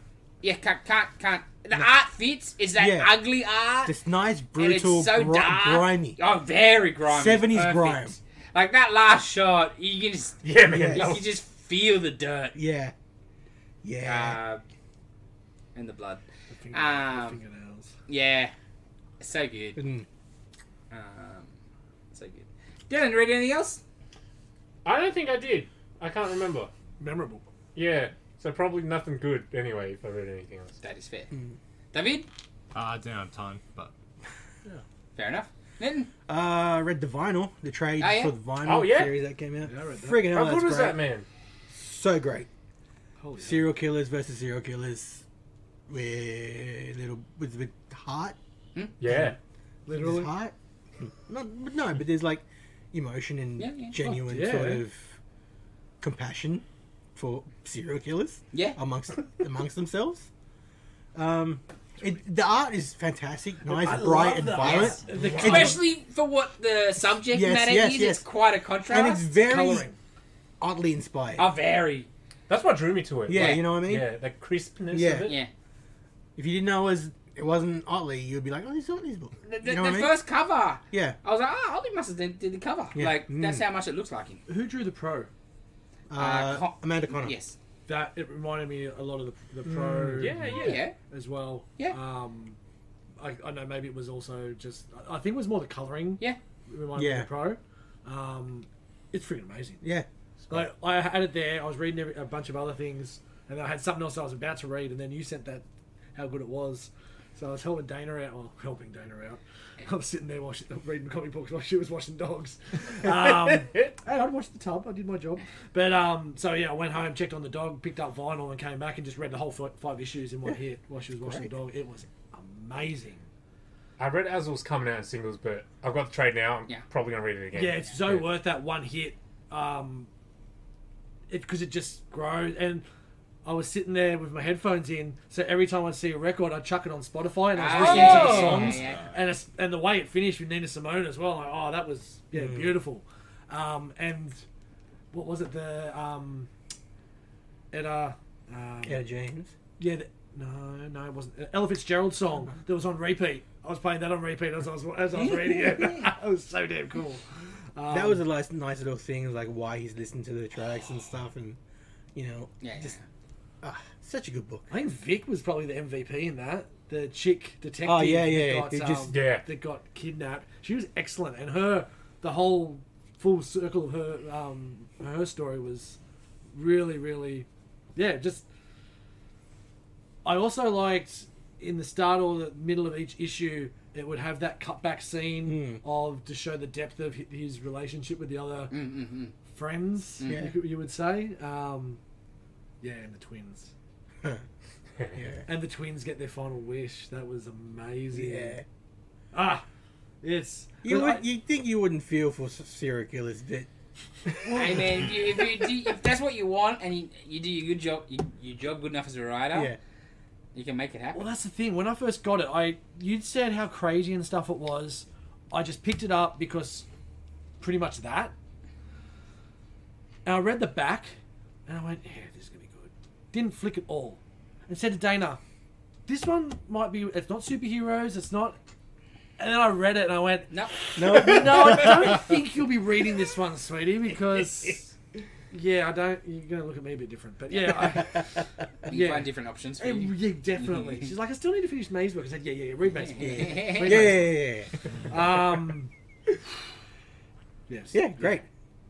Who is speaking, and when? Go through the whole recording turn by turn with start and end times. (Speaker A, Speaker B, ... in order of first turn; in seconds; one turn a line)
Speaker A: 0.4-3.9
Speaker B: 2.8-3.1
Speaker B: 3.8-6.2
Speaker A: 4.5-12.6
Speaker B: 7.1-8.2
Speaker C: 10.4-11.3
Speaker B: 10.7-11.2
Speaker B: 12.5-12.9
Speaker B: 13.8-14.4
Speaker A: 14.0-14.6
Speaker A: 15.7-17.4
Speaker D: 16.5-17.9
Speaker A: 18.1-18.5
Speaker A: 19.2-19.8
Speaker B: 19.8-20.1
Speaker A: 20.9-21.5
Speaker A: 22.1-23.8
Speaker C: 24.8-26.7
Speaker D: 27.0-27.4
Speaker C: 27.7-30.8
Speaker A: 30.8-31.3
Speaker A: 31.9-32.3
Speaker E: 32.7-33.9
Speaker A: 35.1-36.1
Speaker B: 36.3-41.0
Speaker A: 38.0-38.3
Speaker C: 38.6-39.2
Speaker D: 39.6-40.3
Speaker C: 40.2-41.2
Speaker B: 41.7-42.5
Speaker D: 43.2-43.7
Speaker B: 43.4-45.2
Speaker B: 45.9-48.4
Speaker C: 49.0-49.4
Speaker B: 49.1-49.3
Speaker D: 49.9-50.3
Speaker B: 49.9-55.2
Speaker A: 53.6-53.9
Speaker D: 54.0-54.8
Speaker B: 56.0-56.6
Speaker B: 57.1-60.3
Speaker A: 58.5-58.8
Speaker B: 61.1-65.8
Speaker D: 63.6-65.8
Speaker A: 64.5-69.3
Speaker B: 67.3-68.2
Speaker B: 68.9-69.9
Speaker D: 69.4-70.0
Speaker B: 70.6-71.5
Speaker A: 71.3-72.1
Speaker C: 72.5-75.4
Speaker B: 73.3-74.1
Speaker A: 73.3-73.6
Speaker B: 74.9-75.3
Speaker B: 76.4-80.2
Speaker A: 79.5-84.4
Speaker B: 80.9-81.2
Speaker B: 82.9-83.6
Speaker D: 84.5-85.3
Speaker B: 86.1-87.3
Speaker A: 86.2-87.5
Speaker D: 87.9-92.6
Speaker C: 89.6-90.8
Speaker A: 90.5-90.9
Speaker D: 93.2-99.8
Speaker B: 96.9-97.3
Speaker B: 99.8-100.1
Speaker D: 100.5-123.2
Speaker C: 113.1-113.9
Speaker B: 121.2-121.5
Speaker C: 124.0-128.3
Speaker D: 127.5-130.1
Speaker D: 131.3-132.8
Speaker D: 133.4-144.4
Speaker A: 137.5-139.0
Speaker C: 137.7-138.6
Speaker E: 137.8-139.2
Speaker B: 142.3-142.8
Speaker D: 145.1-146.5
Speaker D: 147.7-149.0
Speaker B: 148.8-149.5
Speaker D: 149.8-158.2
Speaker A: 155.1-156.1
Speaker B: 157.9-161.6
Speaker B: 162.1-162.9
Speaker A: 162.6-163.0
Speaker B: 163.6-164.7
Speaker D: 164.7-176.0
Speaker B: 167.8-169.1
Speaker C: 169.1-169.4
Speaker D: 176.5-178.4
Speaker D: 180.2-188.9
Speaker B: 185.4-185.8
Speaker A: 188.7-189.3
Speaker D: 189.5-192.0
Speaker A: 190.2-190.5
Speaker B: 190.2-190.5
Speaker D: 192.8-193.7
Speaker B: 195.1-195.4
Speaker D: 195.5-198.6
Speaker B: 198.1-198.6
Speaker D: 199.3-199.6
Speaker D: 200.2-201.2
Speaker B: 200.8-203.7
Speaker B: 204.3-204.8
Speaker D: 204.4-204.9
Speaker A: 204.5-209.7
Speaker A: 210.5-211.2
Speaker D: 211.1-216.8
Speaker D: 217.6-218.3
Speaker D: 220.2-221.1
Speaker D: 221.7-225.4
Speaker D: 226.1-228.6
Speaker D: 229.4-234.9
Speaker B: 230.9-232.2
Speaker D: 235.5-244.4
Speaker A: 238.8-241.1
Speaker A: 242.9-244.1
Speaker B: 243.2-244.7
Speaker D: 245.1-245.9
Speaker D: 247.7-248.4
Speaker B: 247.9-248.4